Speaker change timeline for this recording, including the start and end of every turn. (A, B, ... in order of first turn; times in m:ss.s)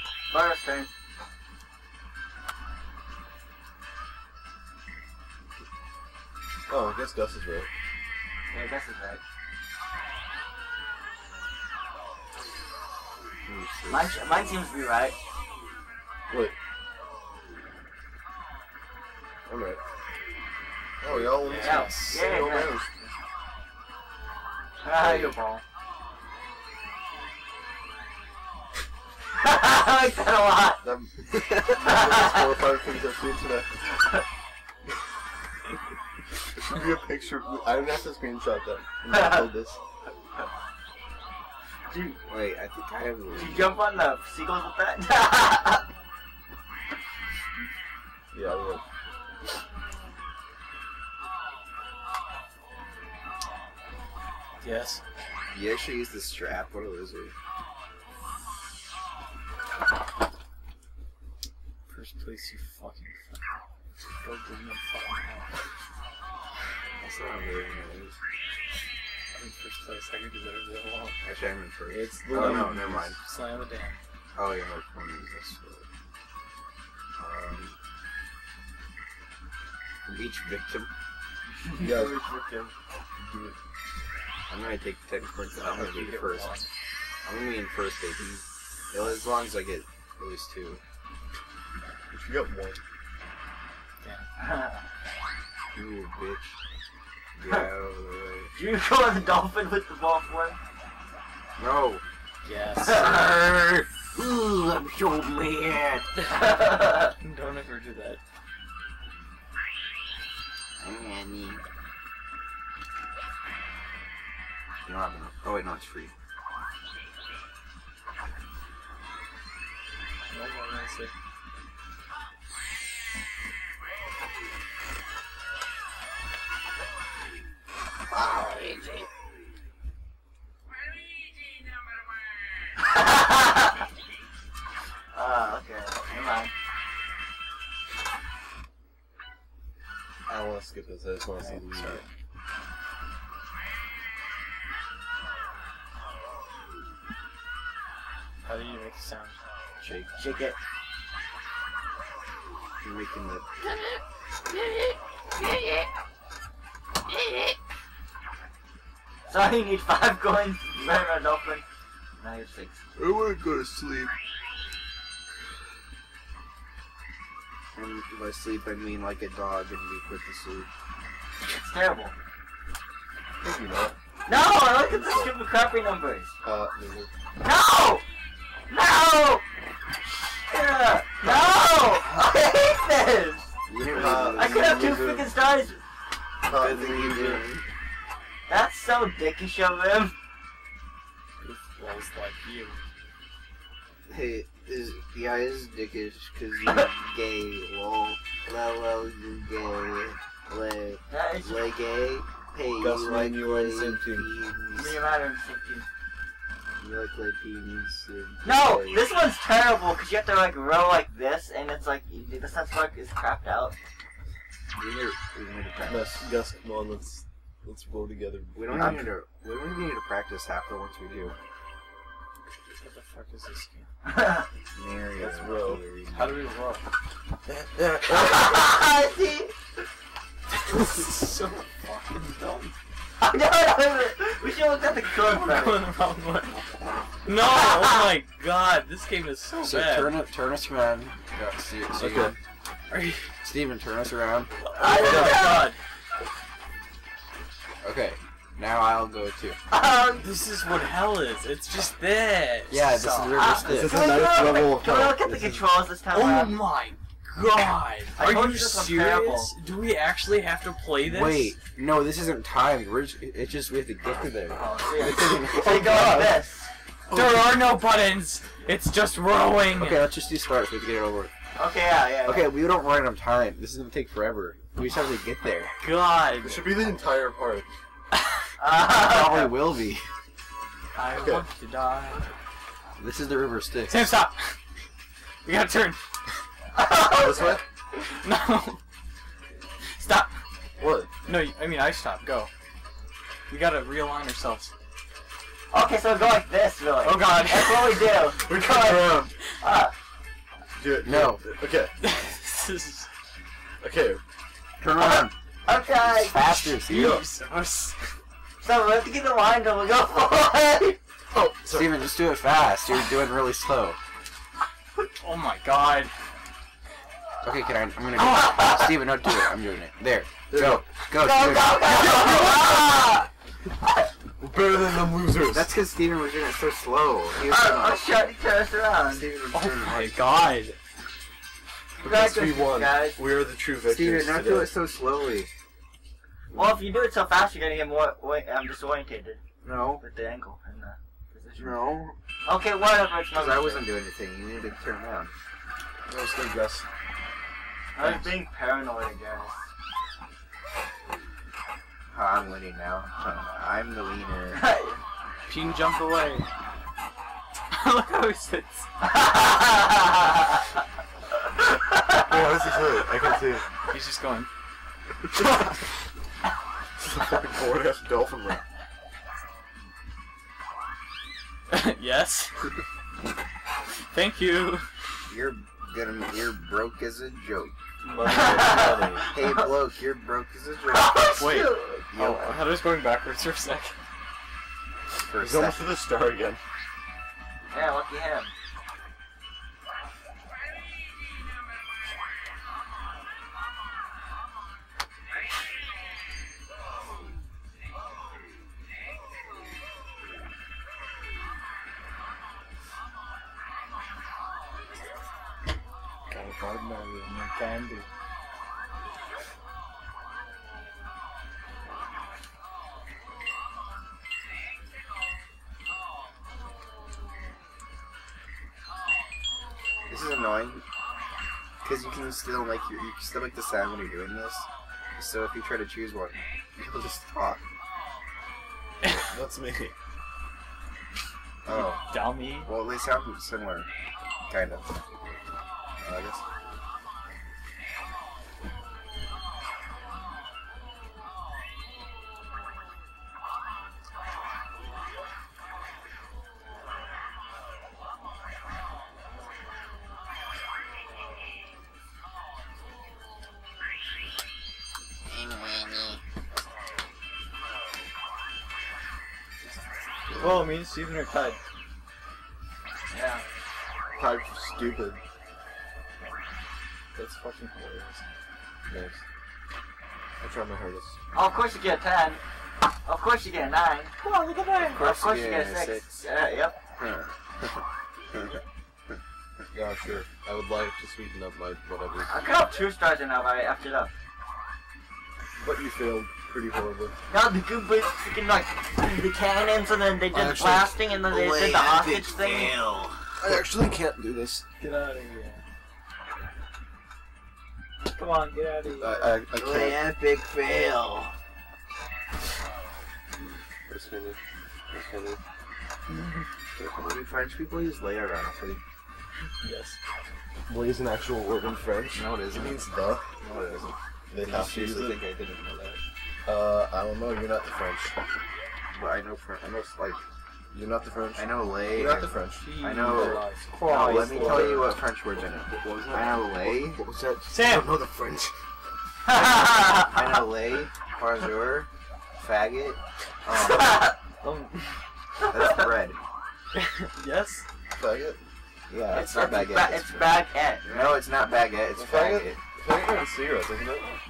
0:00.3-0:00.9 A
0:06.7-0:07.7 B
0:08.5-0:09.2 A
0:13.4-0:14.6 C
0:13.9-0:15.2 A
0:16.3-0:16.5 B
0:19.4-0:19.8 B
0:21.0-0:22.9 B
0:21.0-0:21.3 C
0:21.4-0:22.3 D
0:21.5-0:22.9 A
0:24.8-0:25.6 A
0:25.0-0:25.3 C
0:29.4-0:30.8 A
0:30.8-0:33.7 B
0:31.8-0:32.6 A
0:33.8-0:34.2 A
0:36.6-0:39.8 B
0:39.1-0:39.5 A
0:41.9-0:42.2 A
0:42.3-0:43.7 C
0:43.3-0:45.8 A
0:48.3-0:48.8 B
0:54.6-0:55.0 D
0:55.5-0:57.3 C
1:01.9-1:03.4 D
1:04.2-1:05.6 D
1:07.0-1:08.2 C
1:09.3-1:11.2 D
1:11.2-1:13.2 C
1:11.9-1:14.0 D
1:12.2-1:13.0 B
1:14.4-1:15.8 C
1:17.2-1:17.8 C
1:20.0-1:20.9 C
1:21.6-1:22.2 A
1:21.7-1:23.6 B
1:24.5-1:26.6 C
1:25.6-1:26.7 D
1:27.2-1:30.8 C
1:32.1-1:32.8 B
1:34.0-1:34.3 D
1:34.4-1:34.8 A
1:35.7-1:36.6 C
1:37.4-1:38.5 C
1:38.5-1:40.6 A
1:41.6-1:42.0 C
1:42.4-1:43.2 D
1:42.8-1:46.1 C
1:42.9-1:43.3 A
1:46.3-1:47.1 A
1:47.2-1:48.2 D
1:50.8-1:51.6 C
1:54.8-1:56.1 C
2:00.2-2:01.1 D
2:08.1-2:09.0 A
2:12.9-2:13.7 A
2:15.1-2:16.5 A
2:20.3-2:22.0 B
2:21.4-2:22.0 D
2:28.4-2:29.4 D
2:29.8-2:30.2 C
2:30.2-2:30.6 A
2:32.8-2:33.4 C
2:35.4-2:35.9 A
2:37.1-2:37.5 A
2:39.3-2:41.6 A
2:42.2-2:42.8 A
2:43.0-2:44.1 B
2:47.7-2:50.7 C
2:51.5-2:52.1 A
2:53.4-2:54.0 B
2:54.2-2:56.3 A
2:54.8-2:55.3 B
2:56.4-2:57.1 B
2:57.4-2:58.0 A
2:58.7-2:59.4 A
3:00.5-3:03.5 A
3:01.2-3:02.2 C
3:03.7-3:05.1 C
3:03.8-3:05.3 B
3:04.3-3:05.8 A
3:06.4-3:07.5 B
3:06.5-3:07.6 C
3:08.5-3:10.1 A
3:11.4-3:12.8 D
3:14.1-3:25.0 C
3:21.1-3:21.7 A
3:22.8-3:24.3 B
3:24.7-3:25.8 A
3:26.8-3:29.1 C
3:28.4-3:33.7 A
3:34.8-3:36.3 C
3:35.8-3:39.1 B
3:38.5-3:41.4 C
3:42.8-3:43.9 D
3:44.0-3:44.5 A
3:44.7-3:46.5 C
3:45.2-3:45.8 B
3:46.1-3:46.8 D
3:47.5-3:48.3 B
3:48.1-3:49.5 A
3:50.5-3:52.8 D
3:53.2-3:55.9 A
3:55.2-3:56.6 D
3:57.2-4:00.2 D
3:57.8-3:58.1 A
3:59.6-4:02.4 C
4:02.0-4:02.4 B
4:02.9-4:03.3 D
4:03.4-4:04.5 C
4:04.6-4:05.8 D
4:04.8-4:05.7 A
4:04.9-4:05.4 B
4:07.8-4:09.6 C
4:09.7-4:10.3 A
4:10.2-4:13.5 D
4:12.7-4:14.0 C
4:13.3-4:16.6 A
4:13.6-4:15.7 B
4:16.1-4:21.6 D
4:18.1-4:19.5 A
4:21.0-4:26.0 C
4:24.5-4:26.7 A
4:25.3-4:26.4 D
4:27.1-4:30.0 D
4:29.7-4:31.3 C
4:31.6-4:32.5 A
4:32.2-4:35.8 C
4:35.8-4:36.8 D
4:36.4-4:37.7 B
4:38.6-4:39.5 A
4:38.9-4:40.1 C
4:40.9-4:42.3 D
4:41.1-4:41.4 B
4:43.0-4:44.1 C
4:43.9-4:44.6 D
4:45.4-4:46.0 D
4:46.7-4:47.6 A
4:47.1-4:47.6 B
4:47.9-4:48.8 D
4:49.9-4:50.4 D
4:50.8-4:51.1 B
4:51.2-4:52.5 D
4:53.5-4:54.7 D
4:55.7-4:59.9 A
4:57.0-4:58.1 D
4:58.4-4:59.3 B
5:00.8-5:01.9 B
5:01.0-5:01.4 C
5:02.0-5:03.1 D
5:03.8-5:04.2 B
5:04.8-5:05.3 C
5:05.0-5:06.7 A
5:06.0-5:07.2 C
5:06.8-5:08.2 D
5:08.6-5:11.0 A
5:11.3-5:12.1 B
5:11.7-5:14.0 C
5:15.2-5:16.1 D
5:17.4-5:21.8 C
5:18.3-5:18.8 A
5:20.5-5:20.9 B
5:21.1-5:23.3 A
5:23.8-5:24.1 A
5:24.4-5:25.7 B
5:25.5-5:28.0 C
5:27.4-5:29.3 A
5:29.1-5:30.2 C
5:29.5-5:30.8 D
5:32.0-5:33.2 A
5:32.0-5:34.8 B
5:33.8-5:35.5 C
5:36.5-5:39.4 A
5:39.6-5:40.0 C
5:40.0-5:41.8 A
5:41.6-5:42.2 C
5:42.4-5:43.8 A
5:43.3-5:45.3 C
5:46.1-5:46.9 B
5:47.9-5:49.7 A
5:48.0-5:48.3 C
5:52.1-5:54.6 C
5:54.5-5:55.0 A
5:55.5-5:56.5 D
5:57.7-5:58.9 D
5:59.1-6:00.6 A
6:02.2-6:03.7 B
6:03.9-6:04.5 D
6:07.0-6:08.6 B
6:11.7-6:12.7 D
6:14.0-6:14.9 D
6:15.3-6:17.8 C
6:18.0-6:19.3 B
6:18.3-6:19.7 A
6:19.3-6:21.4 C
6:20.9-6:22.0 A
6:21.4-6:24.0 D
6:22.1-6:22.6 C
6:25.2-6:25.9 C
6:25.4-6:26.6 B
6:27.7-6:28.5 A
6:46.3-6:48.1 D
7:00.1-7:00.8 C
7:01.8-7:07.6 C
7:09.0-7:09.9 B
7:11.6-7:13.9 C
7:11.7-7:12.7 D
7:14.5-7:14.9 C
7:16.0-7:16.4 C
7:35.3-7:36.2 C
7:40.3-7:40.7 B
7:40.4-7:41.6 D
7:43.1-7:43.4 A
7:44.2-7:45.2 B
7:47.1-7:48.4 D
7:48.9-7:49.2 B
7:50.4-7:51.2 B
7:51.3-7:52.4 A
7:53.0-7:54.1 A
7:54.2-7:55.1 D
7:54.9-7:56.1 C
7:55.0-7:56.8 A
7:57.0-7:58.6 C
7:59.7-8:02.3 B
8:02.3-8:04.1 A
8:05.6-8:07.2 B
8:07.3-8:12.8 A
8:10.3-8:13.7 C
8:13.4-8:14.6 B
8:14.8-8:15.6 D
8:18.1-8:19.3 D
8:18.9-8:20.0 B
8:19.5-8:21.3 C
8:23.9-8:24.4 B
8:24.9-8:25.4 B
8:26.8-8:27.2 B
8:26.9-8:28.8 C
8:29.6-8:30.0 D
8:30.7-8:33.3 B
8:32.1-8:32.8 C
8:33.4-8:36.0 C
8:34.3-8:35.2 B
8:36.4-8:38.2 B
8:38.9-8:40.2 C
8:40.7-8:45.0 B
8:41.3-8:47.0 C
8:42.4-8:44.8 D
8:45.7-8:48.6 B
8:47.5-8:47.9 D
8:49.2-8:50.1 A
8:50.0-8:53.9 C
8:53.5-8:54.1 A
8:54.4-8:55.0 D
8:55.4-8:55.9 A
8:55.5-8:56.2 C
8:56.7-8:57.6 D
8:57.9-8:58.4 B
8:58.9-9:02.6 C
8:59.1-9:01.1 A
9:01.9-9:04.2 B